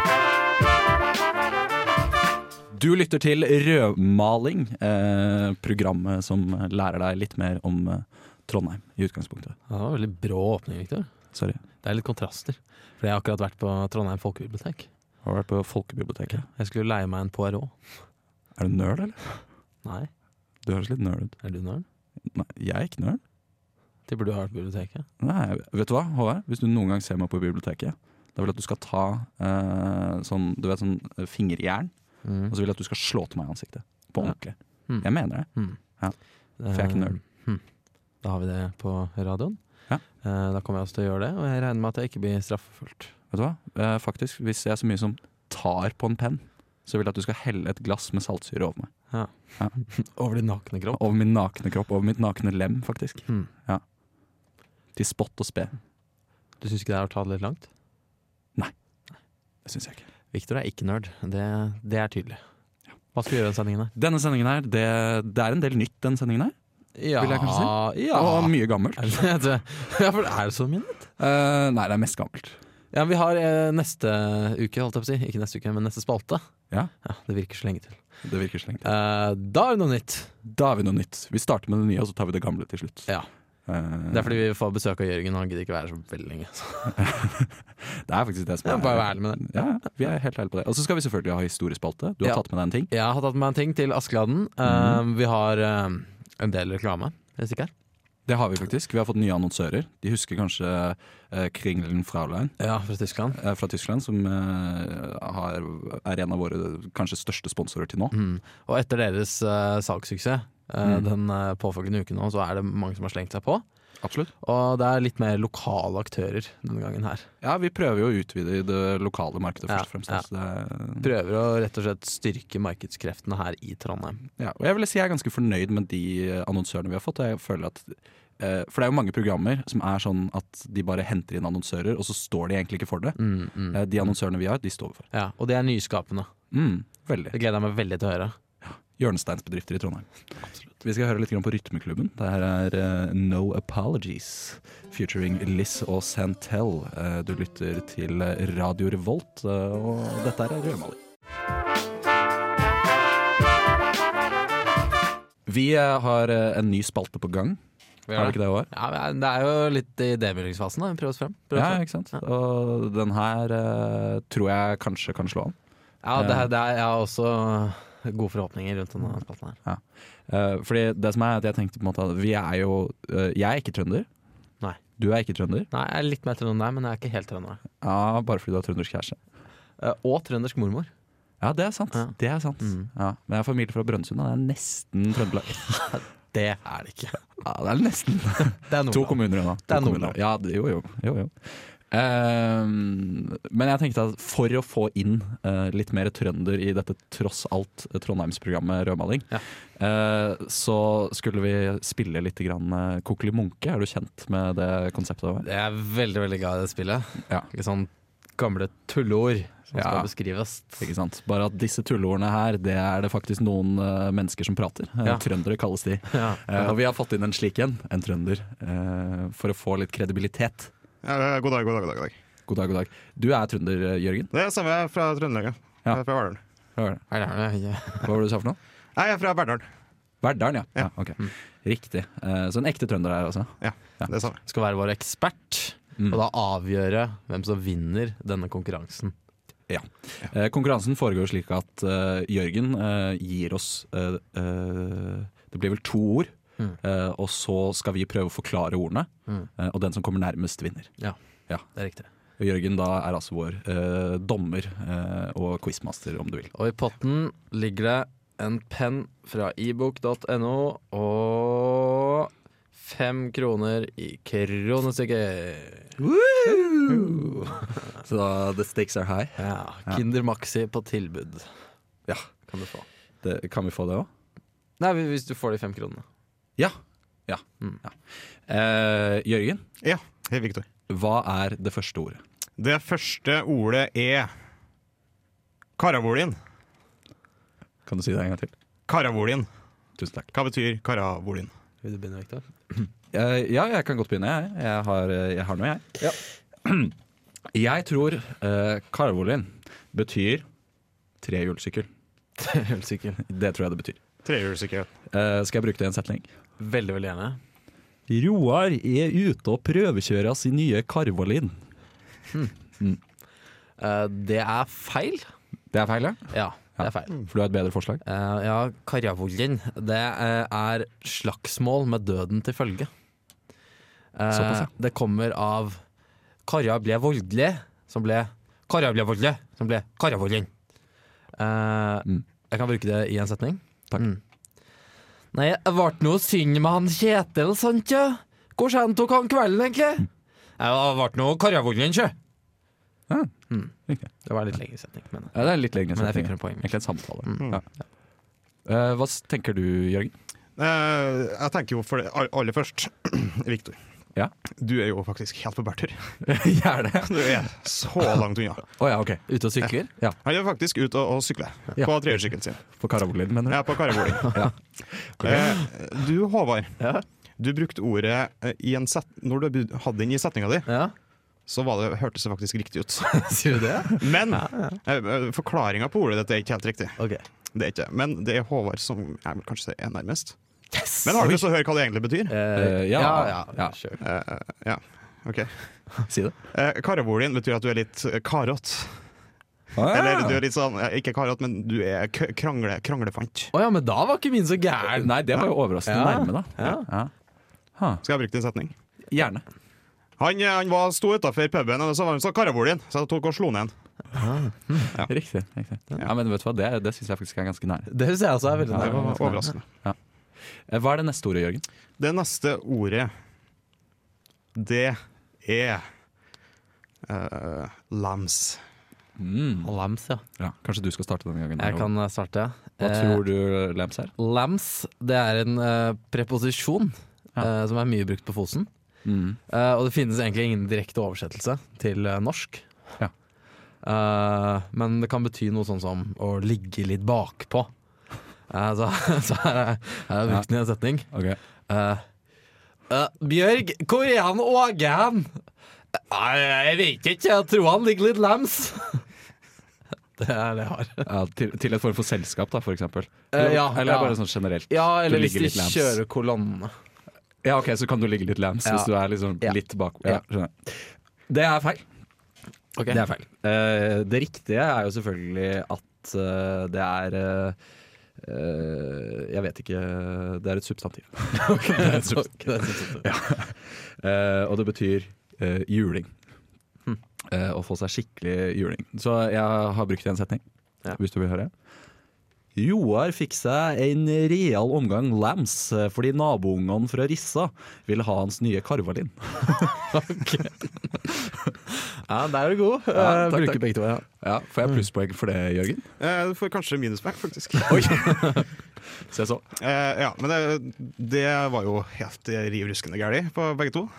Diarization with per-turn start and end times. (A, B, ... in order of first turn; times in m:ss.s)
0:02.7-0:09.6 A
0:09.7-0:11.1 B
0:11.3-0:11.6 A
0:11.8-0:14.9 B
0:15.2-0:16.4 A
0:16.4-0:17.8 B
0:18.6-0:19.3 A
0:19.8-0:20.1 B
0:20.6-0:21.4 A
0:21.4-0:21.8 B
0:22.3-0:23.2 A
0:24.1-0:25.1 B
0:25.2-0:31.9 A
0:32.2-0:32.5 B
0:32.5-0:36.2 A
0:34.9-0:35.8 B
0:36.6-0:37.6 B
0:36.7-0:37.2 A
0:38.2-0:39.6 B
0:40.2-0:43.1 B
0:43.3-0:48.9 A
0:49.1-0:51.0 B
0:50.9-0:53.8 A
0:55.0-0:55.8 A
0:56.6-0:57.7 B
0:59.6-1:00.0 A
1:00.3-1:02.4 B
1:03.1-1:03.9 B
1:03.9-1:06.5 A
1:07.0-1:11.1 B
1:07.2-1:09.0 A
1:11.2-1:12.6 A
1:12.9-1:16.4 B
1:17.0-1:18.0 B
1:18.2-1:18.9 A
1:18.8-1:20.3 B
1:20.4-1:23.1 A
1:23.7-1:24.4 A
1:24.1-1:27.0 B
1:27.0-1:32.9 A
1:28.6-1:29.6 B
1:32.2-1:37.7 B
1:34.6-1:35.0 A
1:38.3-1:42.5 A
1:42.6-1:43.4 B
1:43.3-1:48.1 A
1:48.1-1:53.6 B
1:54.0-1:54.3 A
1:54.4-1:57.3 B
1:57.4-2:01.1 A
1:59.7-2:00.2 B
2:01.0-2:04.2 B
2:04.4-2:13.2 A
2:13.2-2:13.8 B
2:13.7-2:15.1 A
2:15.1-2:16.3 B
2:16.5-2:17.3 A
2:17.3-2:18.4 B
2:18.6-2:20.1 A
2:20.7-2:31.0 A
2:35.4-2:37.6 A
2:38.1-2:41.8 B
2:38.1-2:38.7 A
2:41.5-2:45.6 A
2:46.0-2:49.6 B
2:46.2-2:46.5 A
2:49.6-2:54.1 A
2:55.0-2:55.7 A
2:55.7-2:57.6 B
2:57.8-2:59.2 A
2:59.8-3:00.9 B
3:01.4-3:05.8 A
3:01.9-3:02.9 B
3:05.8-3:07.2 B
3:07.4-3:25.4 A
3:08.6-3:10.1 B
3:25.4-3:30.8 B
3:29.7-3:30.1 A
3:30.8-3:40.7 A
3:36.1-3:36.7 B
3:41.0-3:42.2 C
3:42.5-3:44.3 A
3:44.3-3:46.4 C
3:46.8-3:47.0 A
3:47.1-3:48.1 B
3:48.0-3:48.6 A
3:49.0-3:49.7 C
3:50.2-3:54.1 A
3:53.6-3:54.4 C
3:54.4-3:59.1 B
3:59.7-4:10.9 A
4:11.7-4:12.1 B
4:12.4-4:16.5 A
4:16.5-4:27.7 B
4:26.0-4:27.4 A
4:27.9-4:30.0 A
4:29.4-4:31.5 B
4:32.4-4:32.8 B
4:33.2-4:34.1 A
4:34.8-4:36.0 B
4:36.6-4:39.6 A
4:39.8-4:40.6 C
4:40.9-4:42.2 A
4:42.6-4:44.3 C
4:45.8-4:46.4 C
4:47.8-4:48.5 A
4:48.9-4:49.5 C
4:50.0-4:50.3 A
4:50.3-4:51.5 C
4:51.8-4:52.8 B
4:53.1-4:56.9 A
4:57.5-5:00.4 A
5:01.2-5:01.9 A
5:02.4-5:03.2 B
5:03.2-5:04.0 A
5:04.2-5:04.9 C
5:05.1-5:06.3 A
5:06.6-5:07.4 B
5:08.1-5:11.6 A
5:13.8-5:15.3 B
5:15.7-5:18.0 A
5:16.3-5:17.2 B
5:18.0-5:22.9 B
5:24.1-5:25.8 B
5:24.3-5:24.7 A
5:26.4-5:30.5 B
5:31.4-5:34.2 B
5:35.3-5:40.1 B
5:40.6-5:42.1 B
5:44.2-5:46.7 B
5:45.3-5:47.6 A
5:47.2-5:47.5 B
5:48.6-5:50.1 A
5:50.6-5:53.8 C
5:54.6-5:56.2 C
5:56.2-5:57.5 A
5:57.0-5:58.7 C
5:58.8-5:59.2 A
5:59.3-5:59.9 B
6:00.2-6:02.6 C
6:02.6-6:05.6 A
6:03.5-6:04.5 C
6:05.2-6:06.8 C
6:06.8-6:07.0 B
6:07.4-6:10.7 C
6:10.7-6:10.9 B
6:11.5-6:13.2 C
6:13.1-6:14.8 B
6:13.9-6:17.0 C
6:17.0-6:17.2 B
6:17.5-6:20.4 C
6:20.7-6:21.4 B
6:21.0-6:22.3 C
6:22.3-6:24.0 B
6:22.5-6:23.8 A
6:24.0-6:25.8 C
6:26.1-6:26.4 A
6:26.5-6:29.0 C
6:29.7-6:30.4 A
6:29.8-6:33.5 C
6:33.5-6:36.9 B
6:34.9-6:37.1 A
6:37.8-6:38.0 A
6:38.0-6:38.7 C
6:39.1-6:39.4 A
6:40.2-6:43.7 C
6:44.1-6:44.9 B
6:45.0-6:47.9 A
6:47.9-6:49.5 B
6:48.7-6:50.0 A
6:48.8-6:49.6 C
6:50.7-6:51.6 A
6:52.0-6:53.1 C
6:54.5-6:55.9 C
6:57.0-6:58.6 C
6:59.2-6:59.7 A
6:59.6-7:00.2 B
7:00.4-7:01.9 A
7:01.6-7:03.2 B
7:02.8-7:04.1 A
7:04.2-7:08.7 B
7:09.0-7:09.4 A
7:09.5-7:12.7 B
7:13.8-7:17.7 B
7:18.5-7:21.1 B
7:21.1-7:21.4 A
7:21.6-7:22.0 B
7:22.9-7:25.3 B
7:25.9-7:29.0 B
7:30.2-7:31.1 B
7:31.0-7:36.0 A
7:33.3-7:34.2 B
7:34.7-7:36.7 B
7:37.4-7:41.8 A
7:38.6-7:38.9 B
7:42.8-7:43.2 B
7:42.9-7:47.6 A
7:48.2-7:56.1 A
7:51.3-7:53.1 B
7:57.3-8:01.5 A
8:02.5-8:09.9 A
8:09.8-8:11.1 B
8:11.7-8:14.0 B
8:12.9-8:15.8 A
8:16.0-8:18.1 C
8:17.6-8:18.5 A
8:18.0-8:18.4 B
8:19.0-8:19.4 A
8:19.6-8:23.9 C